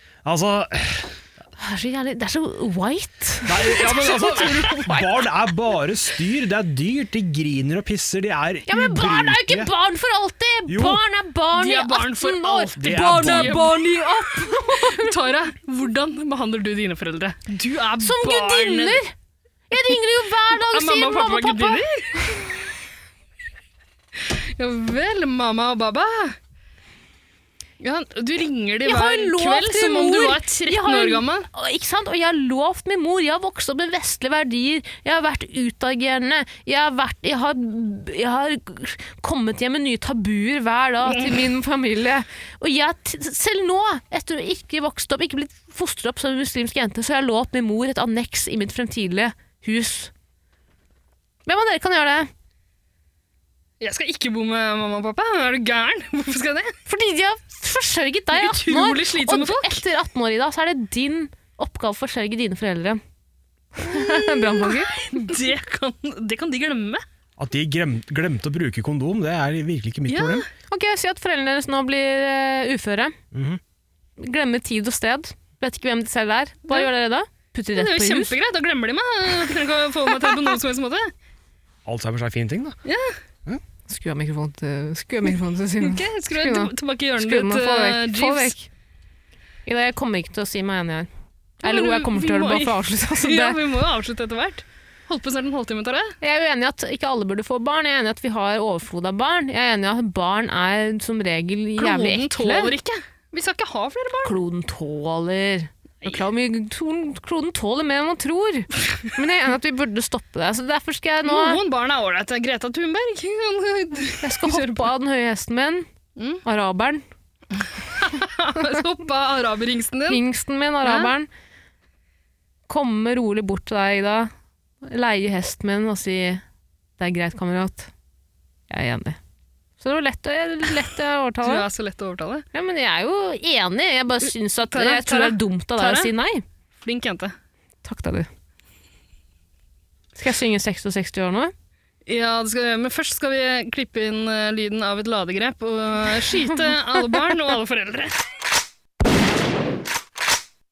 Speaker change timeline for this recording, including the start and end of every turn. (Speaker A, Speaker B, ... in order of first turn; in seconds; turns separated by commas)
Speaker A: 0.2-1.2, Speaker B: 1.6-5.3, Speaker A: 3.5-9.7, Speaker B: 8.7-15.1, Speaker A: 10.7-11.0, Speaker C: 11.5-19.0, Speaker A: 12.8-13.7, Speaker B: 18.0-19.1, Speaker B: 19.7-21.9, Speaker C: 20.5-22.5, Speaker C: 24.2-26.4, Speaker C: 27.8-31.5, Speaker B: 28.9-50.1, Speaker C: 41.0-41.5, Speaker B: 51.5-52.3, Speaker C: 53.8-56.8, Speaker B: 56.9-63.0, Speaker C: 58.3-59.8, Speaker B: 63.8-65.0, Speaker C: 63.9-67.0, Speaker A: 67.4-70.5, Speaker C: 70.1-70.5, Speaker B: 70.7-73.2, Speaker A: 73.3-73.6, Speaker B: 74.2-78.3, Speaker C: 77.7-81.1, Speaker A: 81.9-82.8, Speaker C: 82.8-83.2, Speaker B: 83.9-88.7, Speaker C: 85.8-88.6, Speaker B: 89.7-91.1, Speaker B: 91.6-93.6, Speaker C: 91.7-96.2, Speaker B: 96.2-102.7, Speaker C: 101.8-104.3, Speaker B: 104.2-111.6, Speaker C: 111.3-114.9, Speaker B: 114.2-115.9, Speaker C: 116.2-116.4, Speaker B: 116.4-117.0, Speaker C: 117.6-120.2, Speaker B: 120.1-121.3, Speaker C: 120.8-121.1, Speaker B: 122.7-124.3, Speaker B: 124.8-126.4, Speaker B: 127.0-127.9, Speaker B: 128.7-129.2, Speaker B: 129.8-131.7, Speaker C: 131.4-132.5, Speaker B: 132.5-136.4, Speaker C: 134.7-136.1, Speaker C: 136.8-137.3, Speaker B: 137.8-138.3, Speaker B: 140.2-141.5, Speaker C: 142.1-148.2